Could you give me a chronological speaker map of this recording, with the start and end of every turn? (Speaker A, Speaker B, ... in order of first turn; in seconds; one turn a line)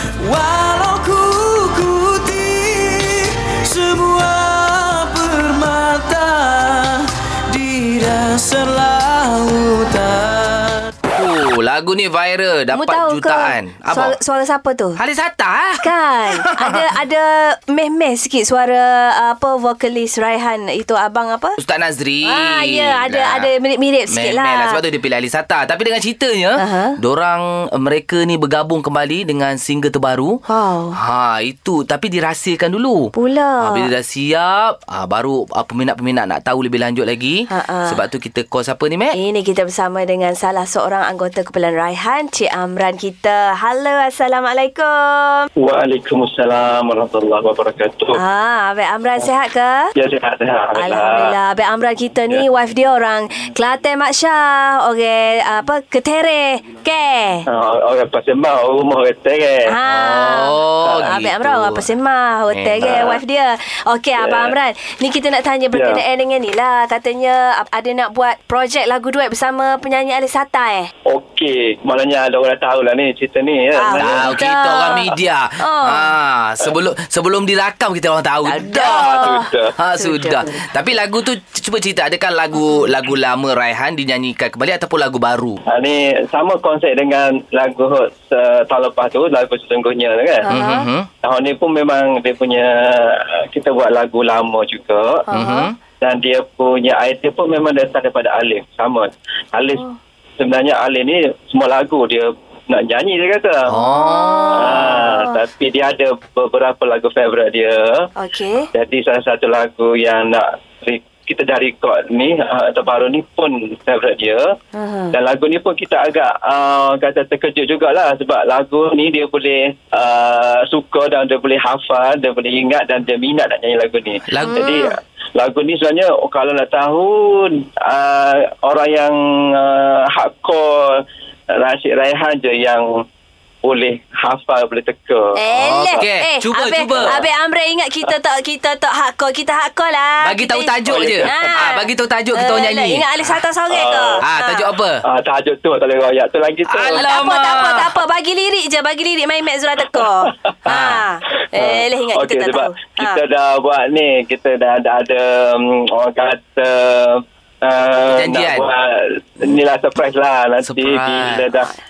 Speaker A: 0.2-10.9
Speaker B: 11.1-14.2
Speaker C: 12.7-15.0
Speaker B: 15.0-16.9
Speaker C: 15.8-21.6
Speaker B: 21.6-23.5
Speaker C: 22.2-24.8
Speaker B: 24.1-30.4
Speaker C: 26.6-27.0
Speaker C: 30.5-31.0
Speaker B: 30.9-39.2
Speaker C: 33.1-33.9
Speaker C: 37.5-38.0
Speaker C: 39.1-45.5
Speaker D: 45.6-48.2
Speaker C: 48.1-49.9
Speaker D: 50.0-51.4
Speaker C: 50.7-57.5
Speaker D: 57.5-59.8
Speaker C: 59.7-70.9
Speaker B: 59.9-61.9
Speaker B: 62.5-63.2
Speaker D: 64.2-64.5
Speaker D: 65.7-66.0
Speaker D: 71.1-74.4
Speaker C: 73.8-76.1
Speaker B: 74.0-85.6
Speaker C: 78.4-80.5
Speaker D: 78.8-79.7
Speaker D: 85.7-90.5
Speaker C: 90.5-90.9
Speaker B: 90.5-91.1
Speaker D: 91.2-95.2
Speaker C: 95.3-95.7
Speaker B: 95.3-95.8
Speaker D: 96.0-99.8
Speaker D: 100.4-103.7
Speaker B: 103.7-105.0
Speaker C: 103.7-105.4
Speaker D: 104.5-108.1
Speaker C: 108.2-108.7
Speaker D: 108.7-114.5
Speaker C: 114.8-115.1
Speaker D: 115.1-131.0
Speaker B: 124.3-124.7
Speaker C: 124.4-124.9
Speaker D: 131.6-132.9
Speaker D: 133.6-135.4
Speaker C: 135.3-144.7
Speaker B: 135.5-137.2
Speaker B: 140.2-143.1
Speaker D: 140.9-141.4
Speaker D: 143.7-144.2
Speaker B: 144.2-145.0
Speaker D: 145.1-147.0
Speaker B: 146.7-147.9
Speaker C: 147.0-153.2
Speaker B: 150.7-151.1
Speaker D: 151.5-161.7
Speaker B: 158.1-158.7
Speaker B: 160.6-161.5